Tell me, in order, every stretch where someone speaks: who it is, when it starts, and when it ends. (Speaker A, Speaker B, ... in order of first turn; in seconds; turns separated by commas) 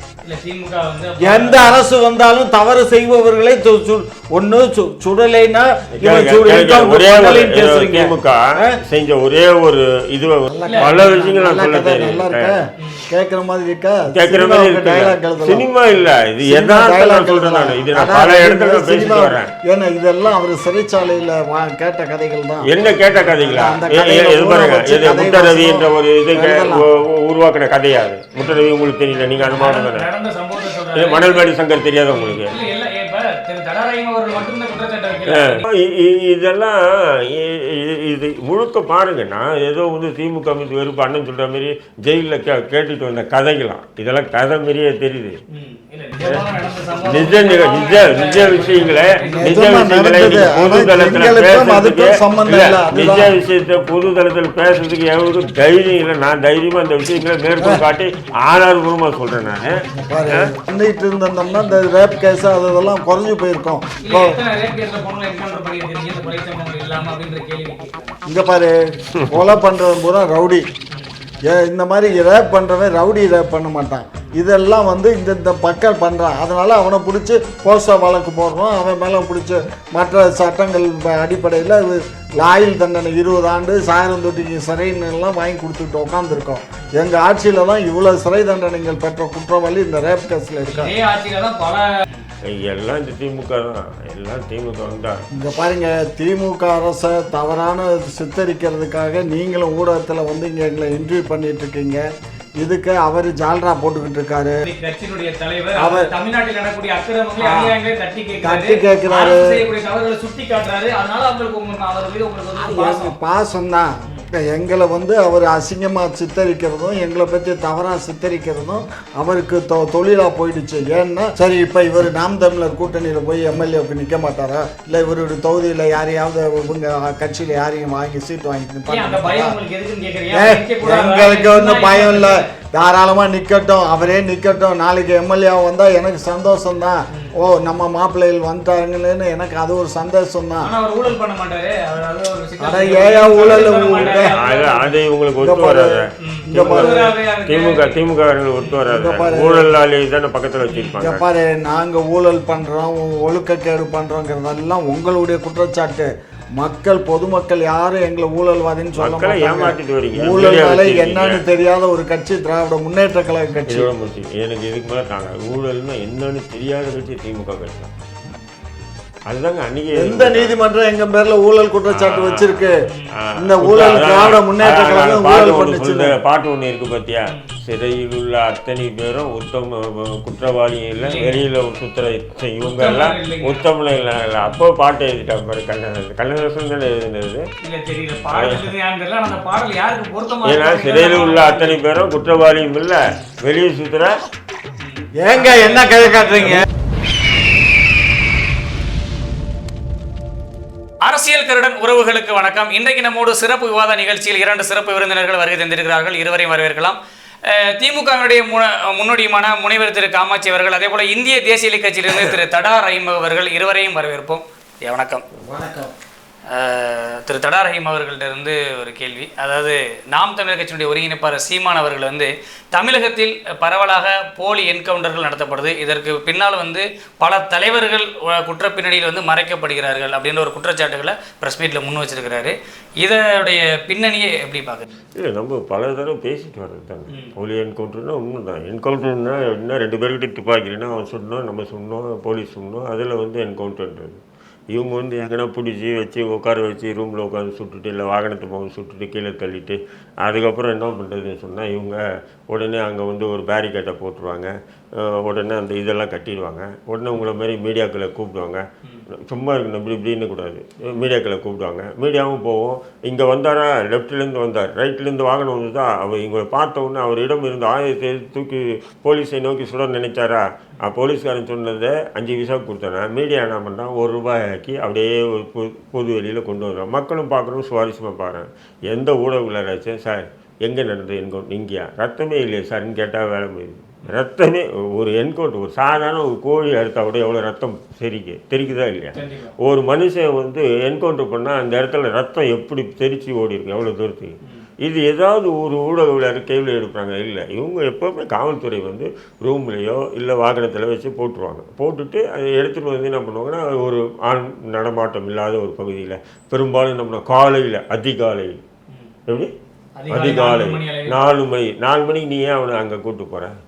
Speaker A: 0.2-1.8, Speaker B: 1.2-8.8, Speaker C: 6.0-12.6, Speaker B: 10.5-15.7, Speaker A: 10.6-11.3, Speaker A: 12.8-13.1, Speaker C: 14.1-19.5, Speaker B: 16.4-22.7, Speaker C: 22.6-30.1, Speaker B: 23.3-26.8, Speaker A: 28.4-31.5, Speaker C: 30.9-32.5, Speaker A: 32.1-35.6, Speaker C: 35.3-45.4, Speaker A: 45.5-49.6, Speaker C: 47.0-60.4, Speaker B: 49.3-53.3, Speaker B: 59.9-64.4, Speaker A: 64.0-68.1, Speaker B: 68.3-70.6, Speaker B: 71.5-90.9, Speaker A: 90.7-92.3, Speaker C: 92.5-95.2, Speaker B: 95.3-102.0, Speaker B: 102.6-104.6, Speaker A: 104.6-113.2, Speaker B: 105.8-106.1, Speaker B: 107.4-107.8, Speaker B: 108.4-109.6, Speaker B: 112.6-129.6, Speaker A: 128.9-132.4, Speaker B: 130.3-140.7, Speaker A: 140.6-144.9, Speaker B: 142.6-144.3, Speaker C: 143.5-151.2, Speaker B: 145.4-145.9, Speaker A: 146.2-148.1, Speaker B: 146.4-147.1, Speaker B: 148.8-149.7, Speaker A: 150.7-151.0, Speaker B: 151.0-163.9, Speaker C: 159.0-161.4, Speaker C: 163.7-167.9, Speaker C: 169.3-170.6, Speaker B: 169.9-172.7, Speaker C: 171.9-172.7, Speaker A: 172.9-173.1, Speaker C: 173.2-187.4, Speaker B: 173.4-176.1, Speaker A: 181.0-181.4, Speaker A: 182.6-183.7, Speaker A: 187.6-191.9, Speaker C: 188.3-188.7, Speaker C: 190.4-194.2, Speaker A: 194.8-196.6, Speaker B: 195.2-196.6, Speaker A: 201.0-215.2, Speaker B: 215.4-215.9, Speaker A: 216.5-234.9, Speaker C: 235.2-258.6, Speaker C: 259.2-308.6, Speaker A: 289.1-289.5, Speaker A: 310.0-311.2, Speaker C: 310.1-313.5